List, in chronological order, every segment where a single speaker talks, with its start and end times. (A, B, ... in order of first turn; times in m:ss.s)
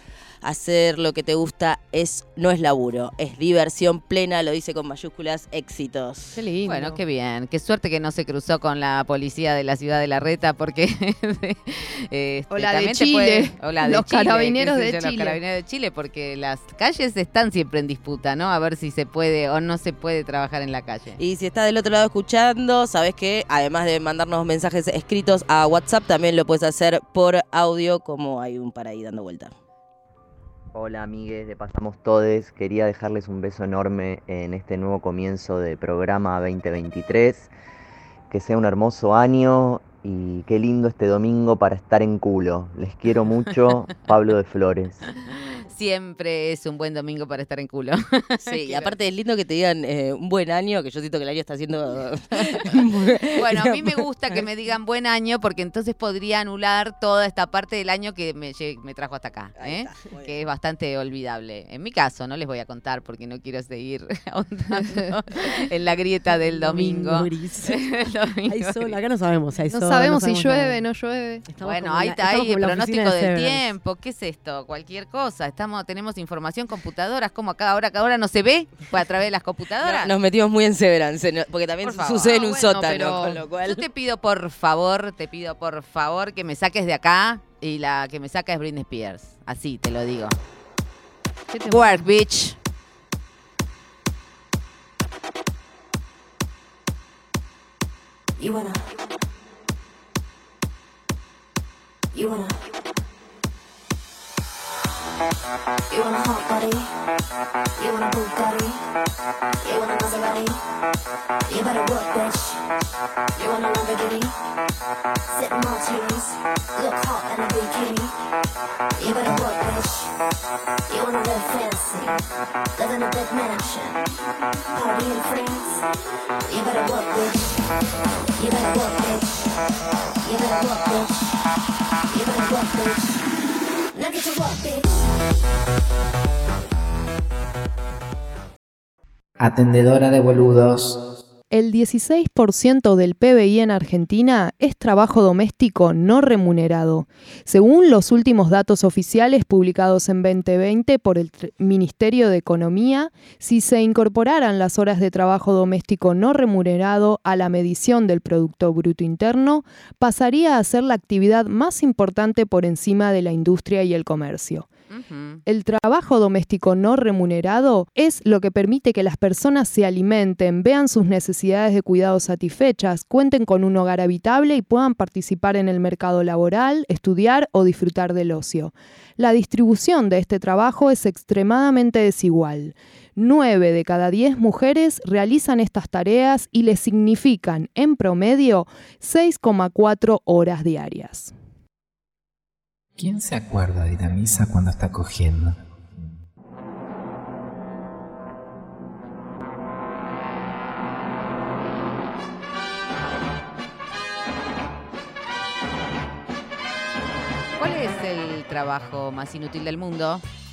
0:00.4-0:06.4 A
0:06.4-0:06.9 B
0:06.4-0:07.0 C
0:06.7-0:21.2 D
0:12.5-0:15.4 C
0:21.2-0:29.5 A
0:30.7-0:37.5 E
0:38.3-0:45.1 E
0:45.7-0:48.9 D
0:48.4-0:53.8 A
0:53.4-1:09.0 D
0:59.6-1:00.3 A
1:06.4-1:07.8 B
1:08.5-1:10.8 B
1:09.7-1:11.5 C
1:11.5-1:13.7 B
1:11.6-1:20.1 D
1:19.8-1:23.8 A
1:21.8-1:22.7 D
1:22.4-1:23.4 C
1:23.6-1:30.4 D
1:31.5-1:32.1 C
1:31.7-1:32.6 D
1:38.4-1:38.9 F
1:42.1-1:42.7 F
1:45.9-1:46.9 F
1:47.8-1:48.8 F
1:49.6-1:50.6 F
1:51.5-1:52.6 F
1:53.4-1:54.4 F
1:55.3-1:58.1 F
1:59.0-2:00.1 F
2:00.9-2:02.2 F
2:02.8-2:04.0 F
2:04.7-2:05.8 F
2:06.5-2:07.6 F
2:08.4-2:09.5 F
2:10.2-2:11.1 F
2:12.1-2:13.2 F
2:13.9-2:15.0 F
2:19.4-2:21.0 G
2:21.5-2:44.7 C
2:44.9-2:45.4 D
2:45.5-3:11.3 C
3:13.0-3:16.2 G
3:27.6-3:30.2 D